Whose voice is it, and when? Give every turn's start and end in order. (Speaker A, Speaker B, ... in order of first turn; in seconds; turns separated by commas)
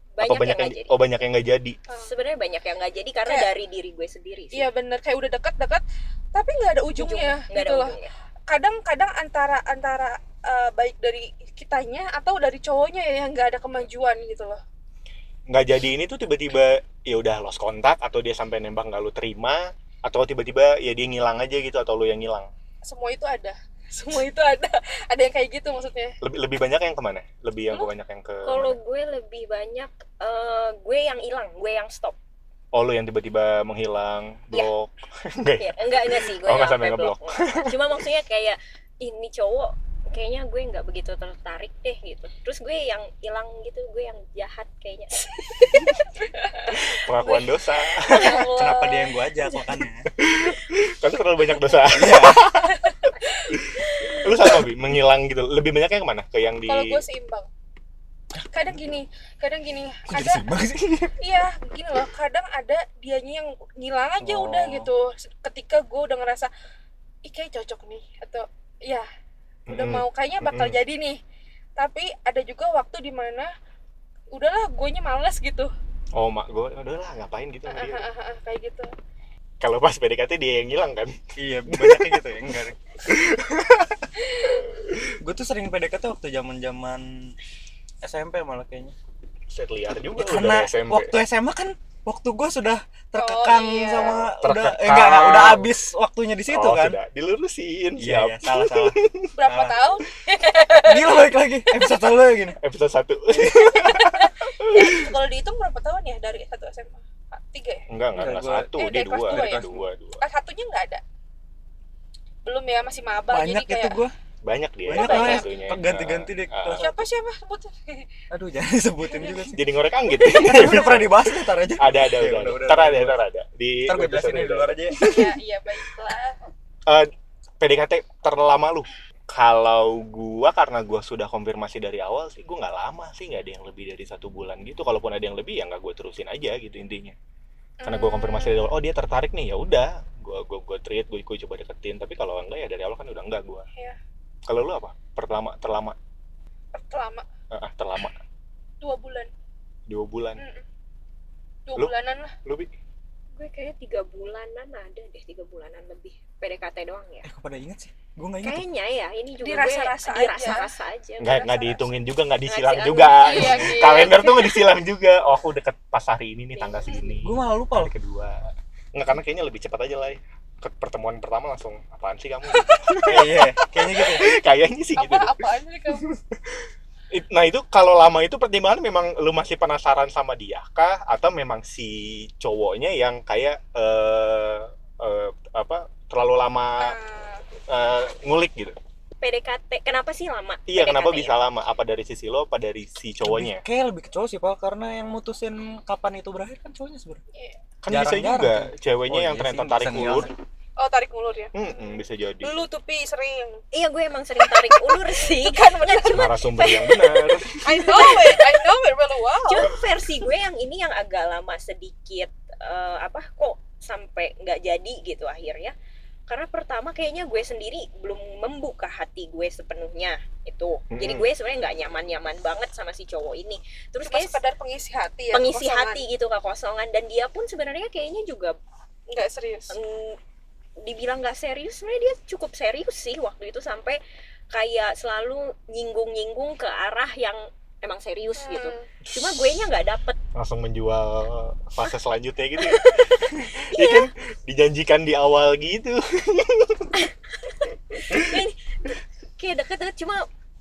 Speaker A: 0.1-0.9, Speaker B: 0.2-1.8, Speaker A: 2.0-4.7, Speaker C: 4.5-5.8, Speaker C: 6.3-8.0, Speaker A: 7.0-8.1, Speaker C: 8.5-14.6, Speaker B: 15.5-22.5, Speaker C: 22.8-26.1, Speaker B: 26.2-28.8, Speaker A: 28.4-32.1, Speaker B: 32.7-37.8, Speaker A: 35.6-45.8, Speaker B: 46.7-48.4, Speaker C: 48.0-49.1, Speaker D: 48.2-50.1, Speaker B: 50.2-57.0, Speaker D: 51.9-52.5, Speaker C: 52.9-54.2, Speaker C: 56.6-57.5, Speaker C: 58.5-60.4, Speaker D: 60.1-61.2, Speaker C: 61.2-66.5, Speaker B: 64.2-64.9, Speaker C: 67.2-69.1, Speaker B: 69.7-70.8, Speaker C: 69.7-71.2, Speaker C: 71.8-73.5, Speaker C: 74.3-75.7, Speaker B: 76.1-78.0, Speaker C: 77.7-78.9, Speaker B: 79.6-81.2, Speaker D: 81.4-82.8, Speaker B: 81.7-82.1, Speaker B: 83.3-83.6, Speaker D: 85.2-87.3, Speaker D: 88.0-88.9, Speaker B: 89.5-91.2, Speaker D: 90.1-97.0, Speaker C: 93.2-94.2, Speaker B: 93.9-95.7, Speaker B: 96.5-99.3, Speaker D: 98.0-99.8, Speaker C: 99.3-101.9, Speaker D: 100.8-102.6, Speaker B: 102.6-105.1, Speaker D: 103.3-103.7, Speaker C: 103.7-107.8, Speaker B: 107.9-110.2, Speaker D: 108.1-109.8, Speaker C: 108.8-109.7, Speaker C: 110.2-111.0, Speaker C: 112.4-114.0, Speaker D: 113.3-114.1, Speaker B: 114.4-116.9, Speaker D: 114.8-117.1, Speaker C: 115.0-115.4, Speaker C: 116.8-118.1, Speaker D: 118.3-123.2, Speaker C: 119.1-119.4, Speaker B: 119.5-125.2, Speaker D: 123.8-125.1, Speaker C: 125.0-126.4, Speaker B: 126.9-137.1, Speaker C: 137.8-138.6, Speaker B: 137.8-143.7, Speaker B: 144.5-145.9, Speaker C: 146.7-147.2, Speaker B: 147.5-148.2, Speaker C: 148.8-149.3, Speaker B: 149.9-150.4, Speaker C: 150.4-150.6, Speaker C: 151.7-152.3, Speaker B: 151.8-152.7, Speaker A: 153.3-157.3, Speaker D: 157.2-158.7, Speaker A: 158.4-164.1, Speaker C: 159.4-160.7, Speaker B: 161.2-186.9, Speaker C: 163.2-164.6, Speaker A: 166.5-167.1, Speaker D: 167.2-167.9, Speaker D: 173.1-174.3, Speaker C: 175.0-176.1, Speaker C: 186.8-187.4, Speaker B: 187.7-188.8, Speaker A: 189.2-191.3, Speaker B: 190.7-193.6, Speaker D: 193.2-197.2, Speaker B: 197.8-200.3, Speaker D: 197.9-200.3, Speaker C: 200.8-201.5, Speaker B: 201.5-202.6, Speaker C: 202.4-203.6, Speaker A: 203.7-208.7, Speaker C: 204.4-206.3, Speaker B: 206.1-208.1, Speaker C: 207.6-209.7, Speaker A: 209.4-215.7, Speaker A: 216.3-224.4, Speaker B: 220.9-221.2, Speaker C: 224.0-226.0, Speaker A: 225.3-228.6, Speaker C: 229.1-229.7, Speaker A: 229.7-230.2, Speaker A: 230.8-234.0, Speaker A: 234.5-240.2, Speaker C: 238.4-238.9, Speaker B: 239.1-239.4, Speaker B: 240.3-246.9, Speaker A: 242.7-244.1, Speaker A: 247.0-250.3